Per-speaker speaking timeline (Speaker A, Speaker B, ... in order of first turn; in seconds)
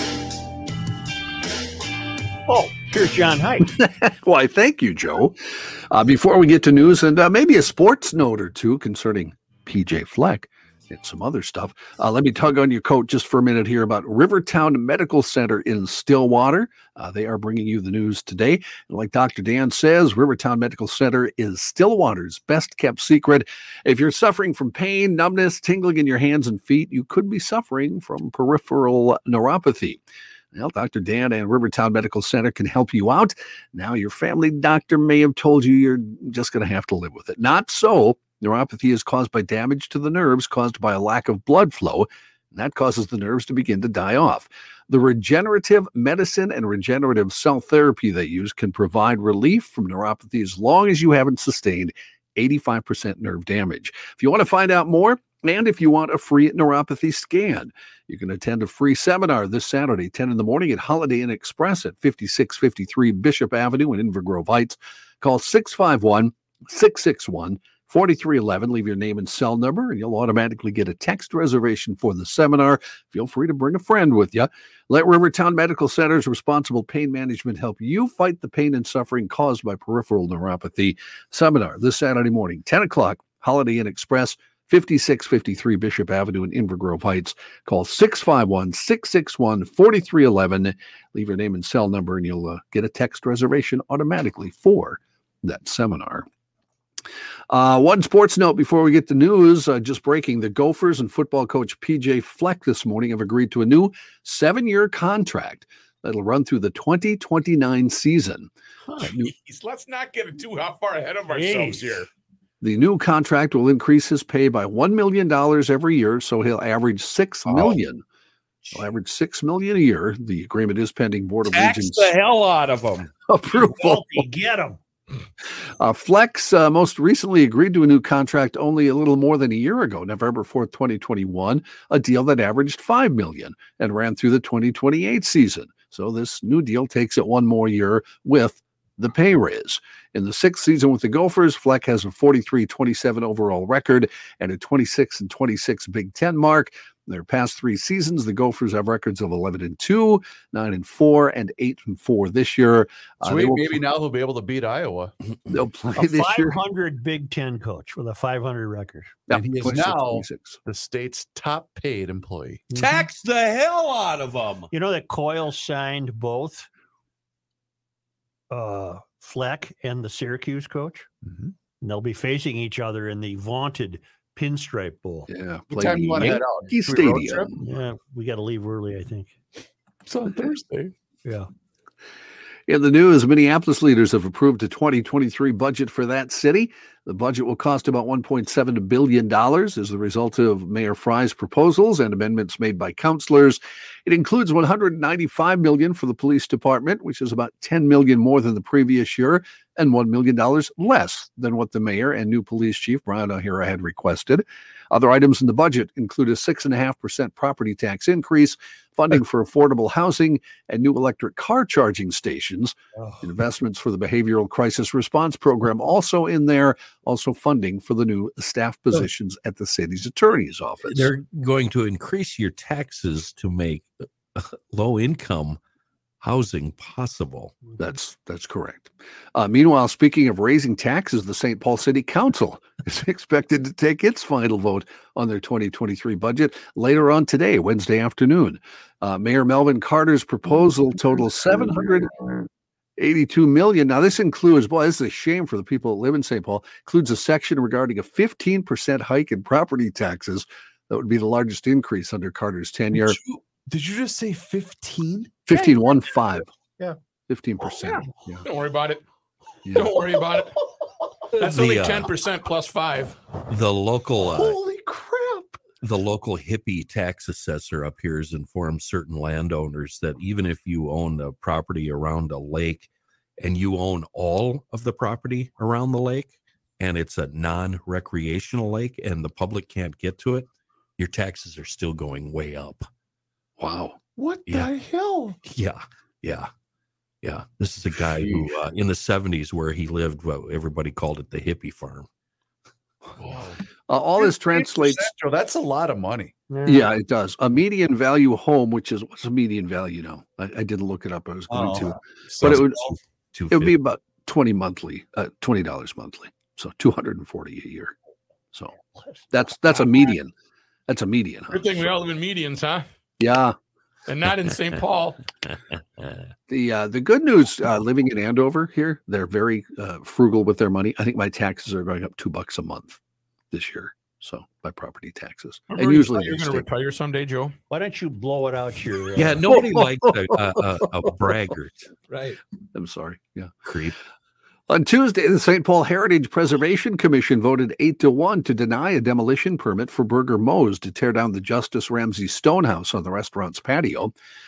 Speaker A: 2.5-3.7, 111.3-112.0, 123.5-124.8, 155.9-159.1, 162.7-163.1, 164.7-166.7, 168.5-171.1, 171.8-175.3, 177.6-179.3, 296.5-296.9, 308.9-309.2, 327.7-329.5
Speaker B: 3.6-30.0, 30.5-96.2, 97.5-109.3, 112.6-118.0, 118.7-122.2, 123.3-124.2, 125.8-153.8, 155.5-156.6, 159.3-160.6, 175.3-177.5, 182.7-221.1, 227.8-242.3, 243.0-253.2, 255.5-256.5, 257.3-258.4, 259.6-259.9, 283.6-284.0, 293.9-295.1, 296.6-302.8, 303.5-307.9, 309.3-310.3, 310.9-311.9, 313.2-313.6, 316.5-323.0, 323.5-326.7, 329.5-330.1, 332.7-333.6, 334.7-344.1
Speaker C: 109.0-112.1, 257.8-259.0, 259.7-260.6, 261.3-263.2, 311.5-312.9, 314.1-315.2, 325.7-327.6, 332.1-332.4
Speaker D: 117.5-117.8, 121.5-123.1, 162.7-164.7, 220.8-225.6, 226.2-227.5, 261.4-262.1, 263.4-264.6, 265.8-272.9, 273.4-282.9, 285.4-286.5, 287.2-292.1, 302.4-303.7, 329.1-331.9, 333.6-333.9
Speaker E: 153.2-155.1, 159.3-162.6, 171.2-171.5, 175.7-177.6, 180.1-180.9, 252.9-255.6, 264.2-265.6, 284.1-285.4, 293.2-293.6, 294.2-296.3, 301.5-302.8